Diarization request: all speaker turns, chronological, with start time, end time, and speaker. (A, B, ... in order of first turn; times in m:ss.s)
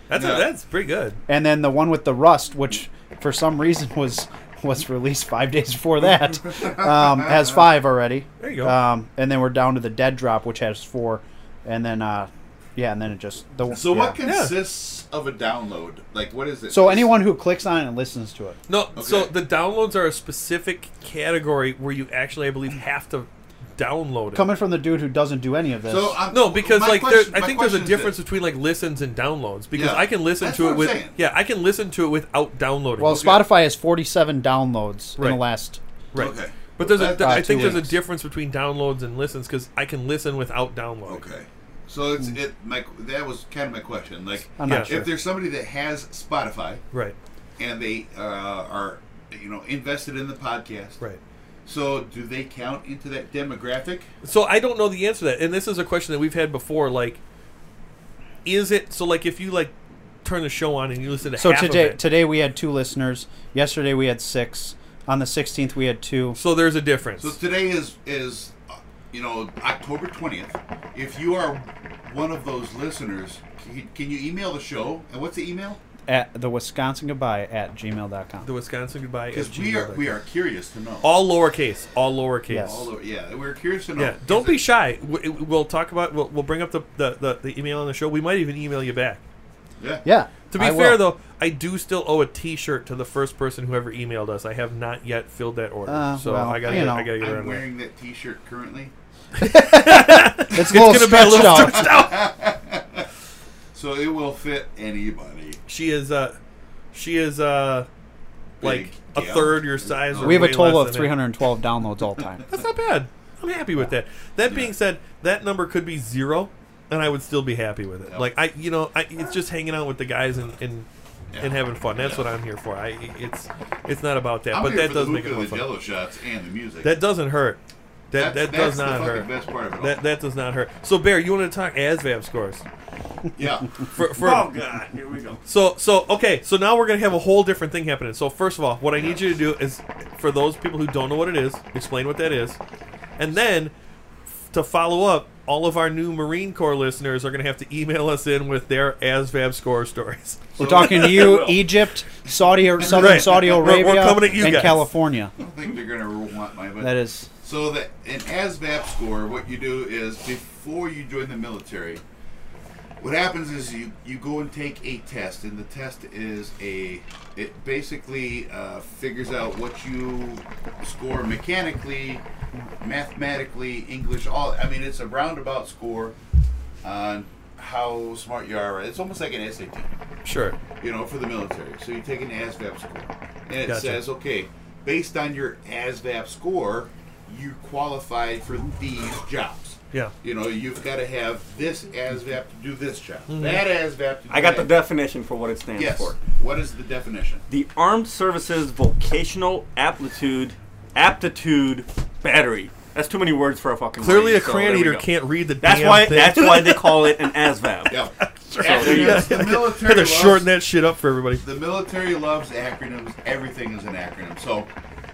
0:00.1-0:01.2 A
0:00.1-0:00.5 B
0:01.3-0:14.2 C
0:06.2-0:07.5 B
0:08.4-0:08.8 A
0:13.7-0:17.1 B
0:14.2-0:14.6 A
0:16.7-0:18.6 C
0:18.7-0:24.5 A
0:18.9-0:19.3 B
0:24.3-0:26.2 C
0:25.9-0:28.1 B
0:26.3-0:33.4 A
0:29.7-0:31.2 B
0:33.0-0:35.8 C
0:33.0-0:33.4 B
0:35.2-0:35.4 A
0:36.1-0:41.2 A
0:36.1-0:37.9 B
0:37.0-0:37.9 C
0:41.1-0:46.8 B
0:44.6-0:45.0 C
0:44.6-0:45.1 A
0:47.6-0:51.0 B
0:51.6-0:54.1 B
0:54.2-0:57.2 A
0:58.4-1:02.0 A
1:01.4-1:06.4 C
1:06.4-1:07.4 A
1:07.2-1:08.6 B
1:09.1-1:15.8 B
1:16.1-1:18.5 C
1:18.4-1:20.2 A
1:19.3-1:21.1 B
1:21.0-1:22.7 A
1:22.5-1:22.9 C
1:22.6-1:24.6 B
1:24.0-1:29.2 A
1:29.8-1:30.0 B
1:30.0-1:31.0 C
1:30.5-1:37.6 A
1:35.8-1:37.1 C
1:36.6-1:38.9 B
1:39.4-1:42.3 A
1:39.4-1:42.0 C
1:41.5-1:43.0 B
1:43.7-1:45.6 B
1:45.7-1:46.4 A
1:46.9-1:47.9 A
1:48.6-1:50.6 B
1:48.6-1:51.2 A
1:50.2-1:52.4 C
1:52.5-2:00.9 A
1:54.4-1:54.7 B
2:01.3-2:02.3 B
2:01.4-2:05.7 A
2:04.5-2:06.9 B
2:06.8-2:07.6 A
2:08.1-2:12.6 A
2:08.1-2:10.0 B
2:13.4-2:13.7 B
2:13.9-2:14.5 A
2:14.2-2:15.4 D
2:15.4-2:22.6 A
2:18.9-2:19.3 B
2:23.2-2:23.7 A
2:24.5-2:30.5 A
2:30.6-2:31.7 D
2:30.6-2:35.3 C
2:32.9-2:34.8 A
2:35.4-2:42.0 B
2:36.8-2:37.3 C
2:43.0-2:52.2 B
2:52.8-2:56.2 B
2:56.8-2:59.9 B
3:00.2-3:00.6 A
3:00.8-3:14.7 B
3:03.6-3:04.0 A
3:13.3-3:13.6 A
3:14.3-3:16.2 D
3:15.8-3:17.4 B
3:17.5-3:25.1 D
3:24.0-3:26.8 A
3:25.6-3:29.3 D
3:27.9-3:30.5 B
3:28.2-3:31.4 A
3:31.4-3:34.7 B